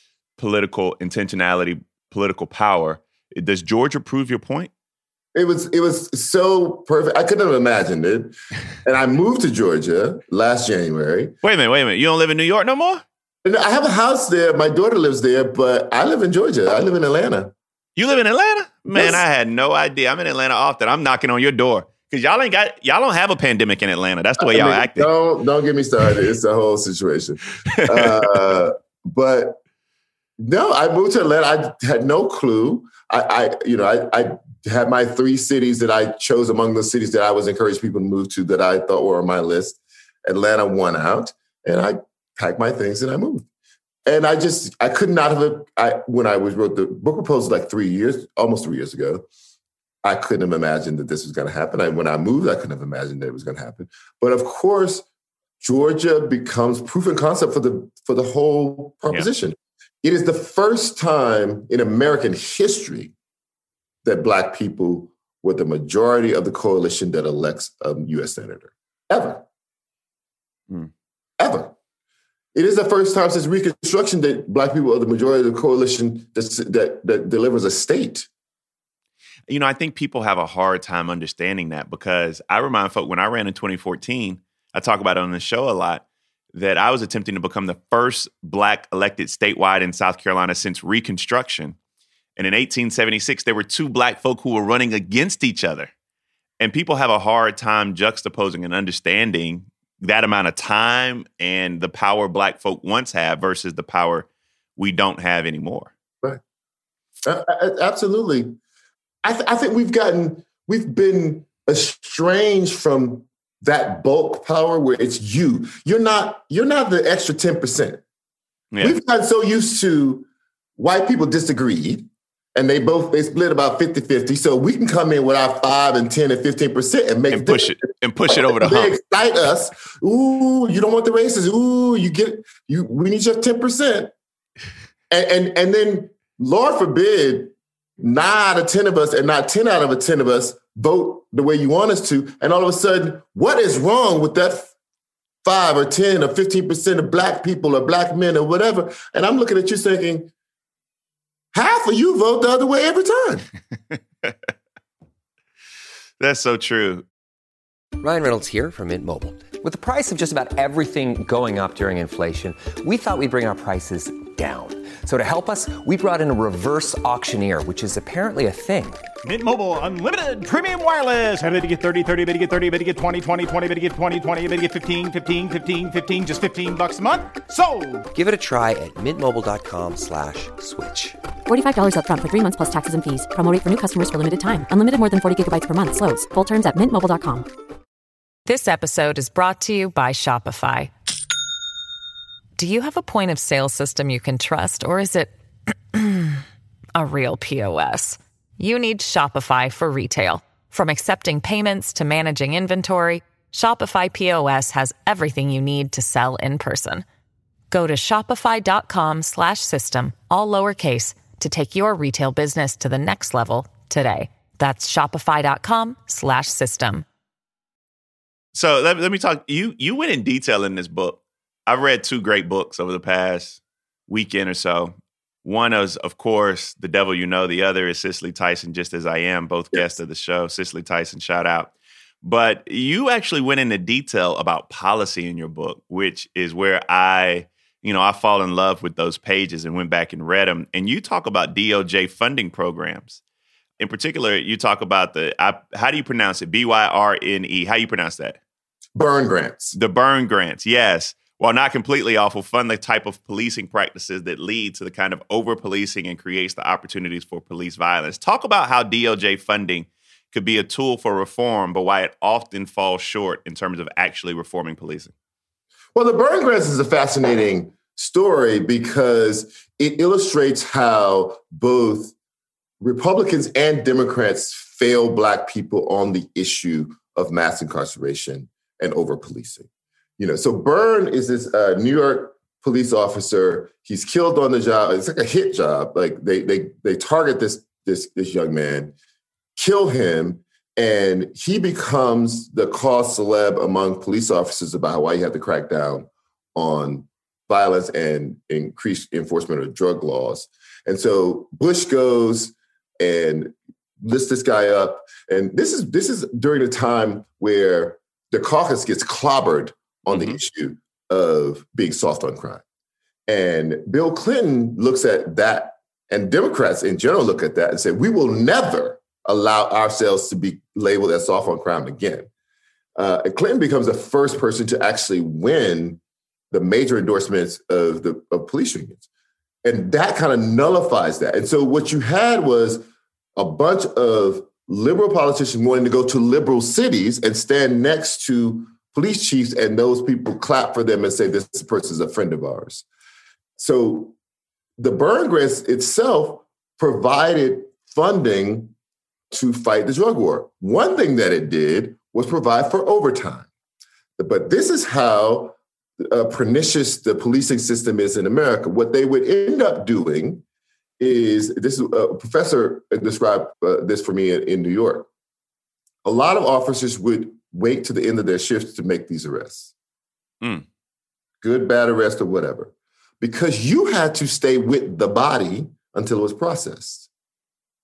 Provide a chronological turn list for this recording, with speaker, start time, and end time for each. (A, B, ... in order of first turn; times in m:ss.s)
0:00.4-0:04.7 A
0:05.3-0:11.3 B
0:11.4-0:13.0 A
0:13.4-0:17.5 B
0:18.0-0:25.1 A
0:18.9-0:19.2 B
0:24.4-0:29.6 B
0:27.7-0:28.3 A
0:30.4-0:43.5 B
0:44.0-0:49.2 B
0:50.0-0:55.0 B
0:55.6-1:03.1 B
1:04.0-1:09.4 B
1:11.4-1:11.7 B
1:12.5-1:18.3 B
1:19.5-1:31.8 A
1:32.4-1:35.9 A
1:36.6-1:45.9 A
1:47.2-1:48.5 B
1:49.2-1:58.0 B
1:58.7-1:59.0 A
1:58.8-2:07.7 B
2:07.3-2:09.0 A
2:08.3-2:14.1 B
2:15.1-2:24.7 B
2:25.4-2:30.3 B
2:31.5-2:33.4 B
2:33.9-2:34.5 A
2:36.2-2:37.0 A
2:38.0-2:49.0 C
2:49.2-2:58.0 D
2:58.1-3:01.2 C
3:01.4-3:07.4 E
3:08.4-3:10.9 F
3:12.6-3:15.3 F
3:15.9-3:16.4 F
3:16.9-3:27.0 F
3:27.7-3:37.0 F
3:38.5-4:03.2 A
4:03.8-4:08.4 A
4:08.9-4:09.8 B
4:09.8-4:25.1 A
4:25.9-4:32.1 B
4:32.8-4:48.9 B
4:49.6-5:12.6 B
5:10.1-5:10.4 A
5:13.3-5:22.3 B
5:23.0-5:26.0 B
5:26.5-5:29.0 B
5:29.6-5:32.8 B
5:33.4-5:42.8 B
5:43.6-5:44.1 B
5:44.8-5:48.7 B
5:49.3-5:53.5 B
5:54.2-6:00.4 B
6:01.0-6:05.1 B
6:06.0-6:09.7 B
6:11.4-6:17.1 B